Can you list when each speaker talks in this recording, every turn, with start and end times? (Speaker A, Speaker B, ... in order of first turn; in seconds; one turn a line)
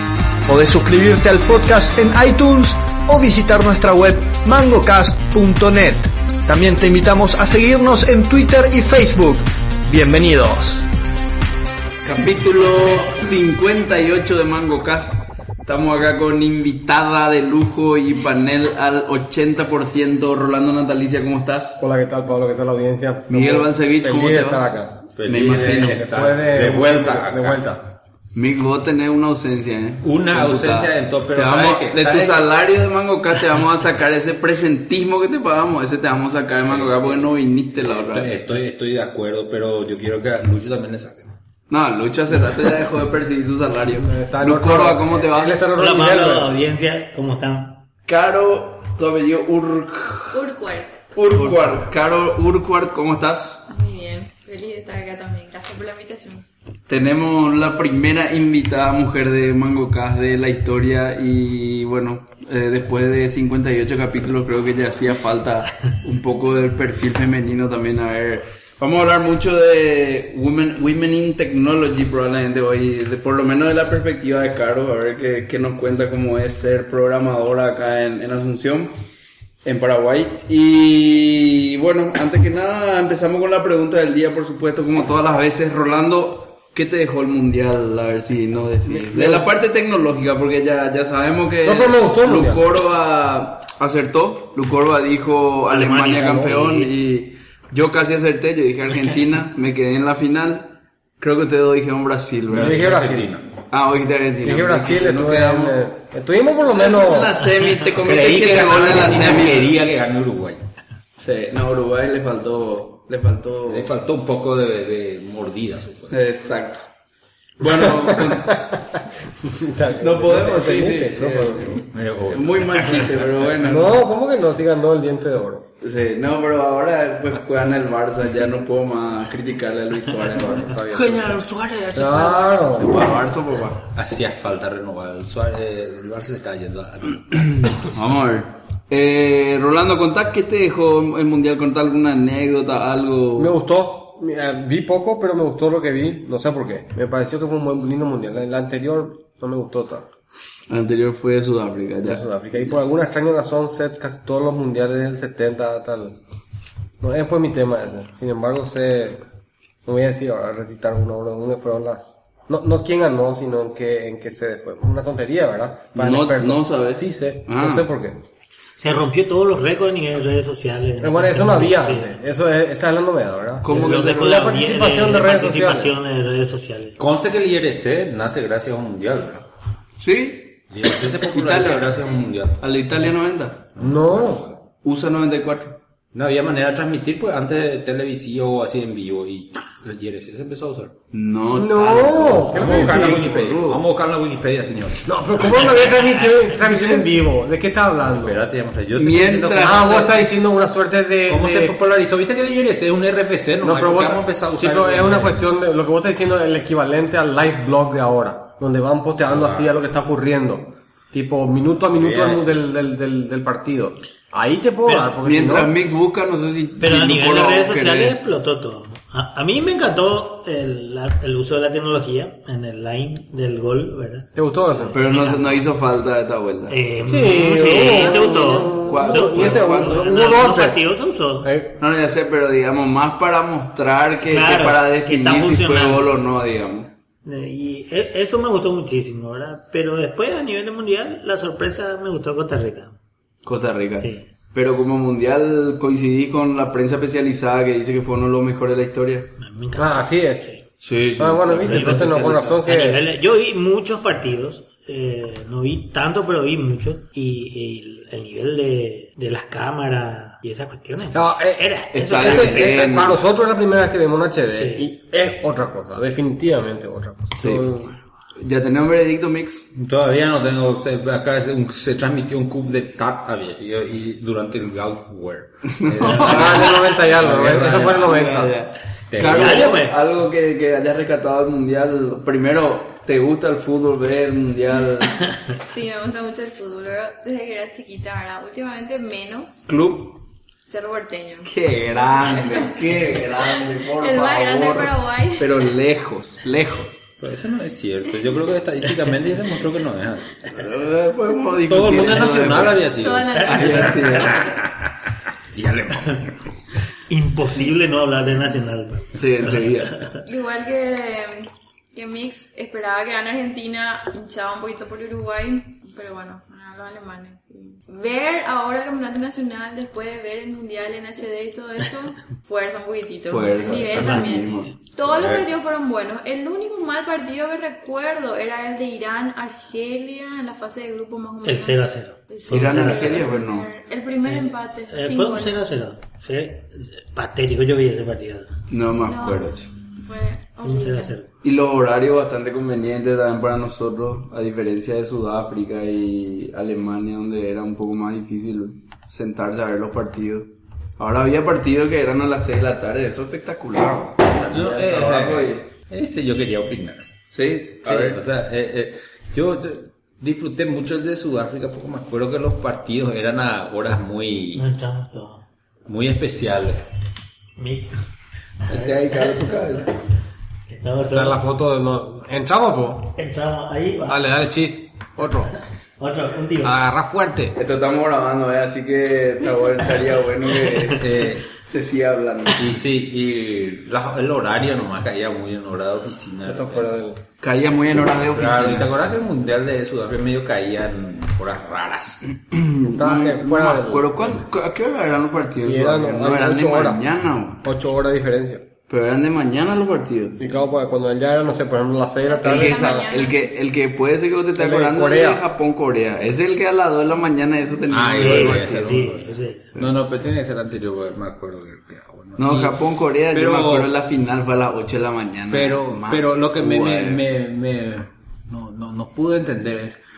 Speaker A: 0.5-10.8
Speaker B: 12.0-21.9
Speaker C: 21.8-27.9
Speaker B: 23.3-24.6
Speaker D: 25.2-27.6
Speaker B: 25.3-26.0
Speaker B: 28.4-38.5
Speaker D: 30.0-32.5
Speaker D: 36.7-37.1
Speaker D: 37.8-41.3
Speaker B: 41.7-45.6
Speaker C: 44.0-46.5
Speaker E: 45.8-47.8
Speaker B: 48.1-50.5
Speaker F: 50.3-51.0
Speaker B: 51.1-53.6
Speaker E: 51.3-51.8
Speaker F: 53.7-56.5
Speaker B: 56.9-79.0
Speaker B: 79.7-102.9
Speaker C: 88.9-89.5
Speaker C: 91.6-92.7
Speaker E: 95.7-96.9
Speaker C: 96.1-96.6
Speaker D: 102.5-103.5
Speaker C: 102.5-103.4
Speaker B: 103.7-105.8
Speaker C: 104.4-107.4
Speaker B: 106.7-109.7
Speaker D: 108.0-110.6
Speaker B: 111.2-113.9
Speaker D: 113.7-116.2
Speaker B: 116.1-116.8
Speaker B: 117.6-118.6
Speaker C: 118.1-121.7
Speaker B: 120.0-124.0
Speaker D: 121.8-123.5
Speaker C: 123.6-125.6
Speaker B: 125.8-130.7
Speaker C: 130.3-131.4
Speaker D: 130.9-132.8
Speaker C: 131.9-133.0
Speaker B: 132.7-133.8
Speaker D: 133.9-137.8
Speaker B: 137.6-143.6
Speaker C: 143.4-150.1
Speaker B: 150.7-152.8
Speaker C: 152.0-156.2
Speaker C: 157.0-159.2
Speaker C: 159.8-168.2
Speaker B: 166.0-167.9
Speaker E: 168.8-172.1
Speaker C: 171.0-175.9
Speaker B: 173.6-174.5
Speaker E: 173.7-177.0
Speaker D: 177.0-179.5
Speaker B: 180.0-183.6
Speaker D: 180.7-182.6
Speaker D: 183.8-184.4
Speaker C: 183.8-184.5
Speaker B: 184.8-185.8
Speaker D: 186.1-190.9
Speaker B: 191.1-193.8
Speaker C: 191.5-193.6
Speaker D: 191.9-195.7
Speaker C: 195.1-198.4
Speaker E: 195.9-196.3
Speaker D: 198.2-200.2
Speaker B: 198.9-200.1
Speaker C: 199.6-201.7
Speaker D: 201.3-205.4
Speaker C: 203.6-215.7
Speaker D: 209.3-209.7
Speaker D: 211.9-212.6
Speaker B: 215.2-218.2
Speaker E: 216.8-224.3
Speaker C: 224.4-225.0
Speaker E: 224.9-225.6
Speaker B: 224.9-226.8
Speaker E: 226.7-231.5
Speaker C: 227.1-230.8
Speaker B: 227.8-228.3
Speaker B: 228.8-230.3
Speaker C: 231.4-231.7
Speaker B: 231.8-236.9
Speaker E: 234.2-236.1
Speaker E: 237.2-242.9
Speaker B: 243.4-249.3
Speaker E: 244.0-244.2
Speaker E: 249.4-250.6
Speaker C: 249.8-250.5
Speaker B: 250.8-252.4
Speaker C: 251.2-253.0
Speaker E: 251.6-263.0
Speaker C: 261.1-268.0
Speaker B: 261.9-263.2
Speaker E: 264.5-264.9
Speaker B: 267.4-267.6
Speaker B: 268.4-269.7
Speaker D: 269.8-278.1
Speaker B: 275.8-276.8
Speaker C: 276.1-278.6
Speaker B: 277.7-285.3
Speaker D: 279.1-279.8
Speaker E: 279.2-279.9
Speaker F: 285.6-289.7
Speaker B: 289.7-290.2
Speaker F: 290.6-291.5
Speaker B: 291.5-297.0
Speaker F: 292.1-292.8
Speaker F: 293.4-295.5
Speaker D: 297.2-300.5
Speaker B: 300.5-302.9
Speaker D: 301.7-304.9
Speaker F: 302.9-304.5
Speaker B: 303.4-304.5
Speaker D: 305.5-306.4
Speaker E: 307.1-310.2
Speaker B: 309.1-310.0
Speaker F: 310.2-335.8
Speaker B: 323.3-324.7
Speaker D: 323.9-324.3
Speaker D: 325.0-325.5
Speaker E: 331.4-333.4
Speaker B: 332.5-333.7
Speaker E: 334.3-338.5
Speaker B: 338.7-339.7
Speaker F: 339.0-341.2
Speaker E: 340.6-341.3
Speaker B: 341.4-355.6
Speaker D: 353.8-357.1
Speaker B: 357.3-358.2
Speaker D: 357.8-364.7
Speaker E: 364.6-365.4
Speaker D: 365.9-366.8
Speaker E: 367.6-367.9
Speaker E: 368.7-369.9
Speaker B: 368.7-369.9
Speaker E: 370.7-371.4
Speaker C: 371.1-373.2
Speaker E: 373.1-374.2
Speaker C: 374.1-375.5
Speaker E: 376.0-376.7
Speaker C: 376.6-377.6
Speaker B: 377.6-382.8
Speaker D: 381.0-381.5
Speaker D: 382.6-386.9
Speaker C: 386.5-387.2
Speaker B: 387.4-388.9
Speaker D: 388.1-392.2
Speaker B: 392.5-397.6
Speaker C: 393.0-394.4
Speaker C: 395.6-397.0
Speaker C: 397.6-398.6
Speaker B: 398.9-400.5
Speaker C: 400.4-403.1
Speaker F: 402.3-403.5
Speaker B: 402.4-409.0
Speaker C: 404.6-405.4
Speaker D: 407.9-412.8
Speaker E: 408.1-409.8
Speaker B: 412.4-417.2
Speaker D: 413.3-413.9
Speaker D: 415.5-420.0